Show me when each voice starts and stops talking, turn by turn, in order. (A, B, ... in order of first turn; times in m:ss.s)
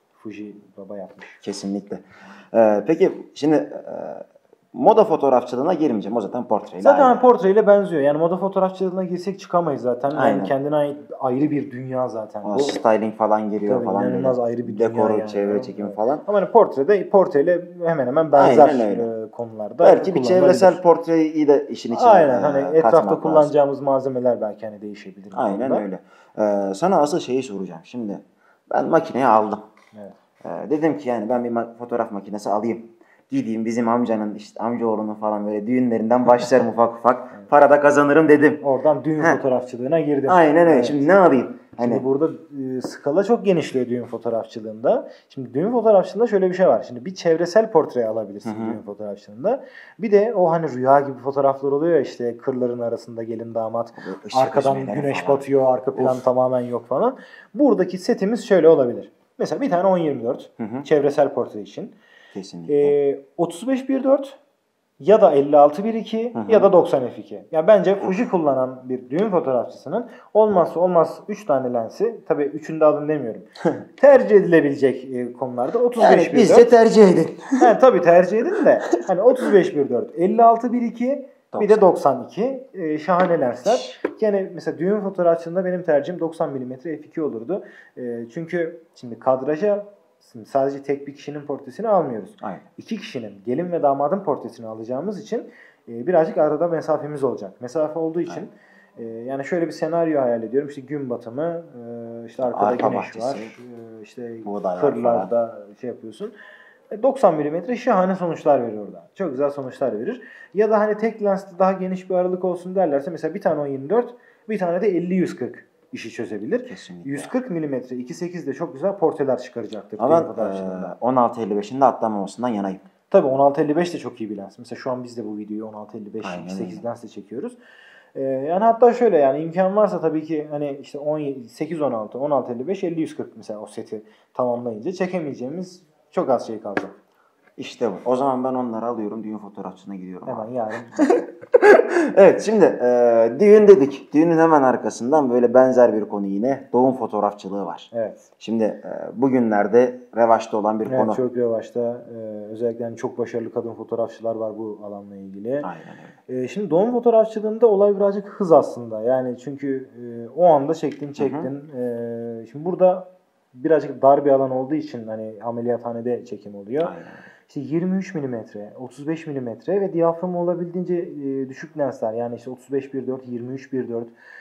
0:00.2-0:01.4 A
0:01.4-0:07.2 B
0:06.8-0:12.8 A
0:10.1-0:10.5 B
0:12.4-0:16.2 B
0:13.6-0:20.8 A
0:18.3-0:19.1 B
0:19.8-0:23.5 B
0:21.9-0:25.8 A
0:25.3-0:29.6 B
0:30.4-0:38.6 B
0:38.6-0:41.1 A
0:40.3-0:42.0 B
0:41.8-1:01.9 A
0:48.4-0:48.8 B
0:54.0-0:56.2 B
1:00.6-1:00.8 B
1:02.3-1:03.0 B
1:02.7-1:04.4 A
1:05.0-1:16.7 A
1:06.3-1:06.7 B
1:16.0-1:17.7 B
1:17.6-1:46.3 A
1:21.5-1:21.8 B
1:23.7-1:23.9 B
1:32.4-1:32.7 B
1:42.4-1:43.5 B
1:44.4-1:45.3 B
1:46.9-2:00.9 A
1:56.7-1:57.3 B
2:00.0-2:02.8 B
2:03.1-2:07.6 A
2:06.2-2:06.8 B
2:08.1-2:16.9 A
2:17.6-2:31.2 B
2:20.2-2:21.1 A
2:27.9-2:28.2 A
2:30.8-2:35.7 A
2:35.6-2:36.1 B
2:36.3-2:46.9 A
2:41.2-2:41.5 B
2:46.8-2:47.2 B
2:47.5-2:54.1 A